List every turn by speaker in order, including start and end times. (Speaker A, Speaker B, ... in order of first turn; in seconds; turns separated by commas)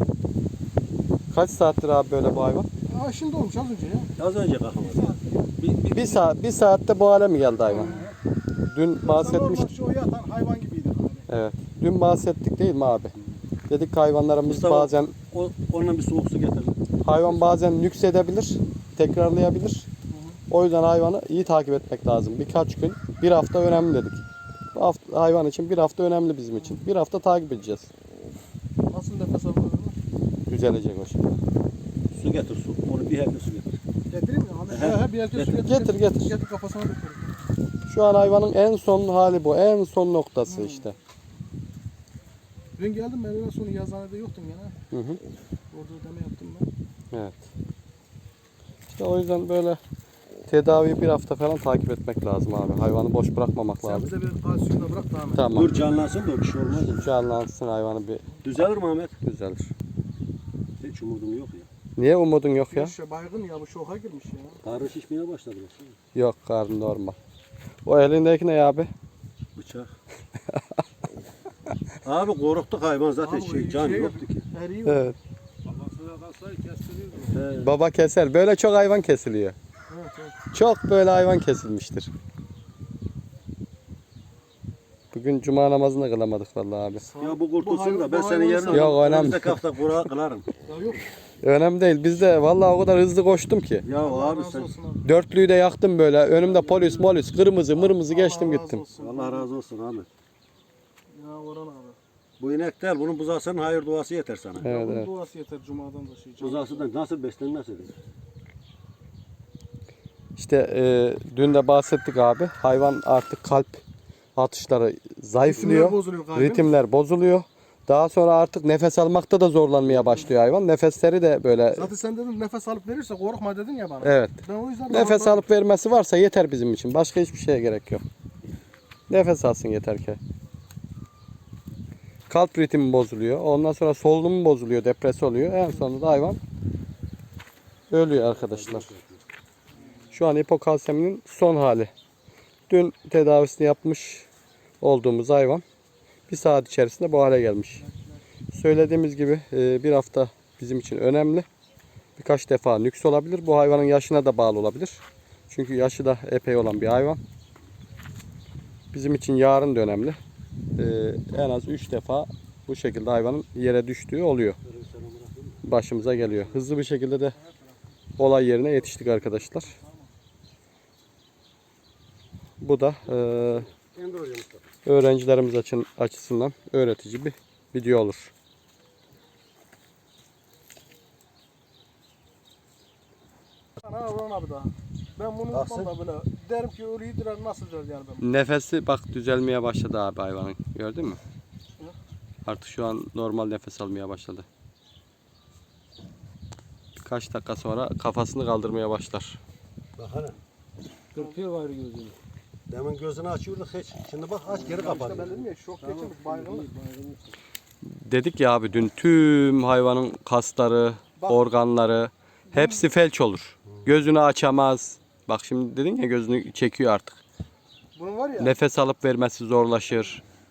Speaker A: 1.3-2.7, Speaker B: 2.9-4.1, Speaker C: 4.2-6.2, Speaker B: 4.8-5.2, Speaker A: 5.9-7.9, Speaker B: 7.6-8.1, Speaker A: 8.7-9.7, Speaker B: 9.0-11.3, Speaker A: 11.3-13.1, Speaker A: 13.7-15.1, Speaker C: 14.4-16.8, Speaker A: 17.0-19.9, Speaker B: 20.1-20.4, Speaker A: 20.5-24.2, Speaker A: 24.7-27.9, Speaker B: 26.6-26.8, Speaker B: 28.9-29.9, Speaker A: 30.5-31.4, Speaker C: 32.1-33.8, Speaker B: 34.1-37.4, Speaker C: 34.7-35.6, Speaker A: 35.6-36.3, Speaker A: 37.9-41.0, Speaker B: 40.5-40.9, Speaker B: 42.8-44.7, Speaker A: 44.9-45.2, Speaker B: 45.7-46.7, Speaker A: 47.1-47.4, Speaker A: 48.9-49.8, Speaker A: 50.5-54.1, Speaker B: 53.8-55.4, Speaker A: 55.3-55.7, Speaker C: 55.5-57.1, Speaker A: 56.7-58.2, Speaker C: 58.4-59.1, Speaker A: 59.2-59.7, Speaker C: 60.8-61.7, Speaker A: 62.0-62.9, Speaker B: 62.7-64.6, Speaker C: 64.6-66.0, Speaker A: 66.1-67.2, Speaker A: 67.8-68.9, Speaker C: 69.5-69.9, Speaker C: 72.0-74.4, Speaker B: 73.2-75.0, Speaker A: 74.8-75.2, Speaker D: 75.6-77.5, Speaker C: 77.3-77.7, Speaker A: 77.6-79.5, Speaker B: 79.9-80.4, Speaker A: 80.5-82.1, Speaker A: 85.1-87.0, Speaker B: 87.0-89.0, Speaker C: 87.2-90.5, Speaker A: 88.7-89.6, Speaker B: 90.7-91.1, Speaker A: 91.4-93.9, Speaker C: 93.8-94.7, Speaker B: 93.9-95.0, Speaker A: 95.0-98.8, Speaker D: 96.5-97.0, Speaker B: 97.9-99.5, Speaker C: 98.9-100.1, Speaker B: 101.1-102.0, Speaker C: 102.4-104.7, Speaker B: 104.6-106.8, Speaker A: 104.6-105.1, Speaker C: 106.4-107.9, Speaker A: 110.4-113.8, Speaker A: 114.3-121.9, Speaker B: 115.4-116.7, Speaker B: 121.7-125.4, Speaker A: 124.0-124.3, Speaker A: 124.9-128.0, Speaker A: 129.1-130.2, Speaker A: 132.3-136.4, Speaker A: 137.9-138.9, Speaker C: 138.2-139.2, Speaker B: 139.8-140.1, Speaker A: 140.1-141.9, Speaker A: 142.7-144.2, Speaker A: 144.8-145.6, Speaker A: 146.3-147.8, Speaker B: 147.8-148.2, Speaker A: 148.5-151.4, Speaker A: 152.2-157.2, Speaker A: 158.9-160.2, Speaker A: 160.8-164.6, Speaker C: 164.6-166.6, Speaker A: 165.6-167.3, Speaker B: 167.3-167.8, Speaker A: 168.2-169.7, Speaker B: 168.4-170.1, Speaker A: 172.6-173.7, Speaker C: 173.1-174.7, Speaker A: 174.8-178.3, Speaker B: 183.8-188.3, Speaker C: 185.5-185.9, Speaker A: 188.2-191.2, Speaker A: 192.4-194.4, Speaker A: 197.0-199.4, Speaker C: 199.9-200.4, Speaker D: 201.1-202.2, Speaker B: 201.1-201.4, Speaker C: 202.7-205.4, Speaker D: 204.6-205.2, Speaker B: 204.7-206.7, Speaker D: 205.8-207.4, Speaker A: 207.8-217.2, Speaker B: 211.2-211.4, Speaker B: 212.5-212.9, Speaker B: 217.9-218.6, Speaker A: 218.3-220.2